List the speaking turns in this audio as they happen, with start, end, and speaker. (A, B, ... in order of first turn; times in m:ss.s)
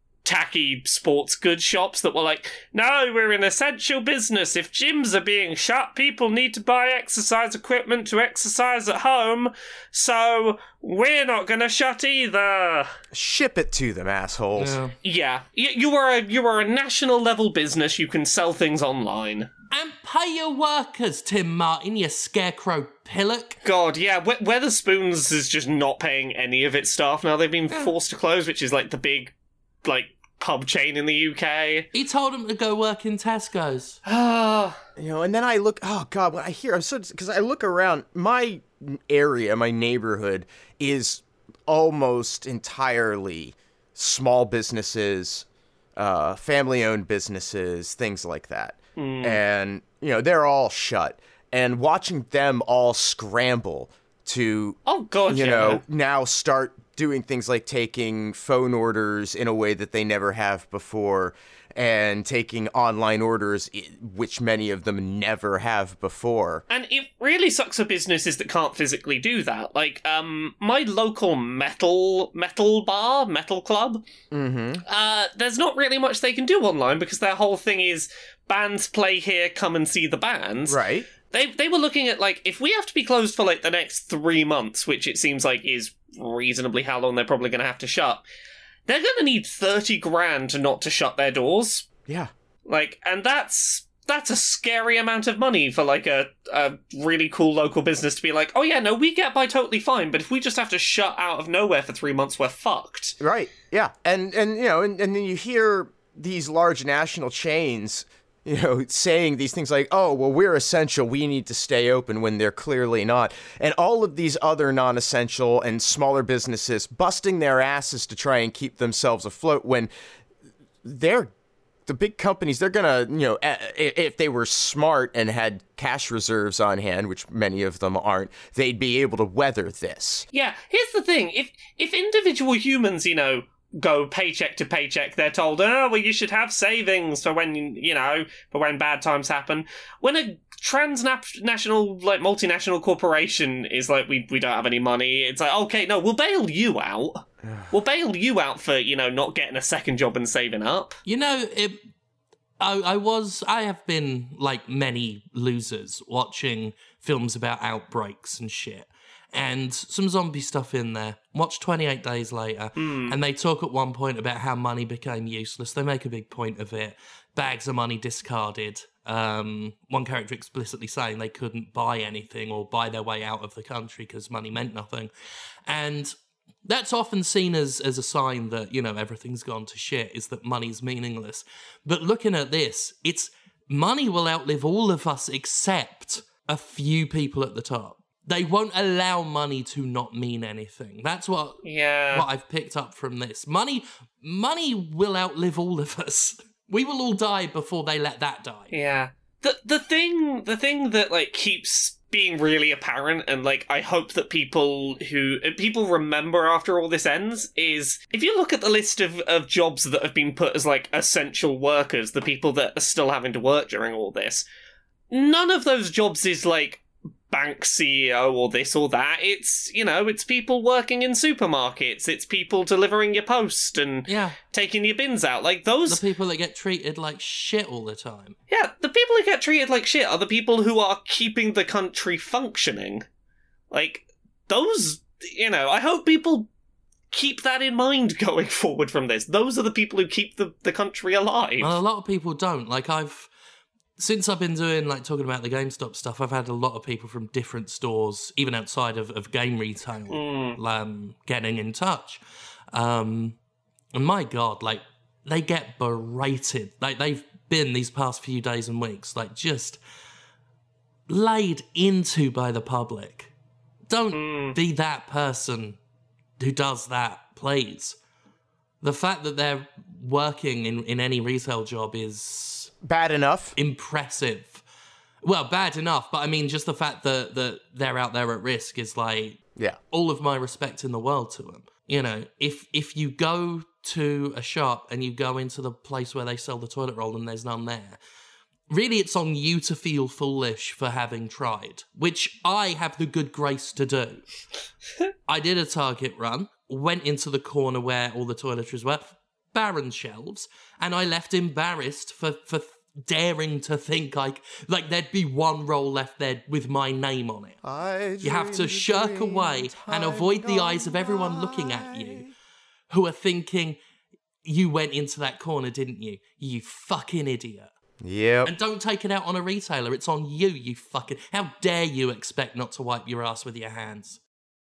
0:00.2-0:13.0 A
0:13.1-0:14.8 B
0:14.6-0:15.0 C
0:15.0-0:19.5 A
0:19.7-0:23.6 C
0:23.6-0:29.3 A
0:29.8-0:31.9 A
0:31.9-0:34.0 C
0:34.1-0:34.8 A
0:35.0-0:45.5 B
0:46.0-0:54.8 B
0:49.0-0:49.4 A
0:54.9-0:55.8 A
0:55.3-1:06.6 B
1:06.7-1:14.0 A
1:14.3-1:14.8 B
1:14.9-1:28.2 A
1:20.7-1:21.1 B
1:28.9-1:31.9 A
1:32.7-1:43.2 A
1:43.2-1:59.9 B
2:00.8-2:01.3 B
2:01.9-2:10.3 B
2:10.3-2:31.0 A
2:31.1-2:31.8 C
2:32.6-2:55.1 C
2:42.8-2:43.2 A
2:55.7-2:56.1 C
2:56.7-3:11.6 C
3:11.6-3:12.3 A
3:12.1-3:18.7 C
3:18.7-3:34.4 A
3:35.1-3:46.0 A
3:44.1-3:44.4 C
3:45.9-3:48.4 C
3:48.5-3:53.0 A
3:53.7-3:56.5 A
3:57.1-4:01.8 A
4:01.6-4:03.3 C
4:04.0-4:12.2 C
4:10.1-4:10.6 A
4:12.7-4:13.4 C
4:14.0-4:19.8 C
4:21.1-4:23.3 C
4:23.9-4:25.8 C
4:24.1-4:24.6 A
4:26.4-4:28.0 C
4:28.8-4:32.7 C
4:32.8-4:33.6 B
4:33.6-4:34.6 C
4:35.2-4:39.4 C
4:39.9-4:48.0 C
4:48.7-4:54.2 C
4:55.3-5:07.6 C
5:07.6-5:12.3 B
5:08.2-5:12.3 C
5:12.9-5:13.8 C
5:14.4-5:17.7 C
5:18.0-5:18.5 B
5:18.4-5:24.2 C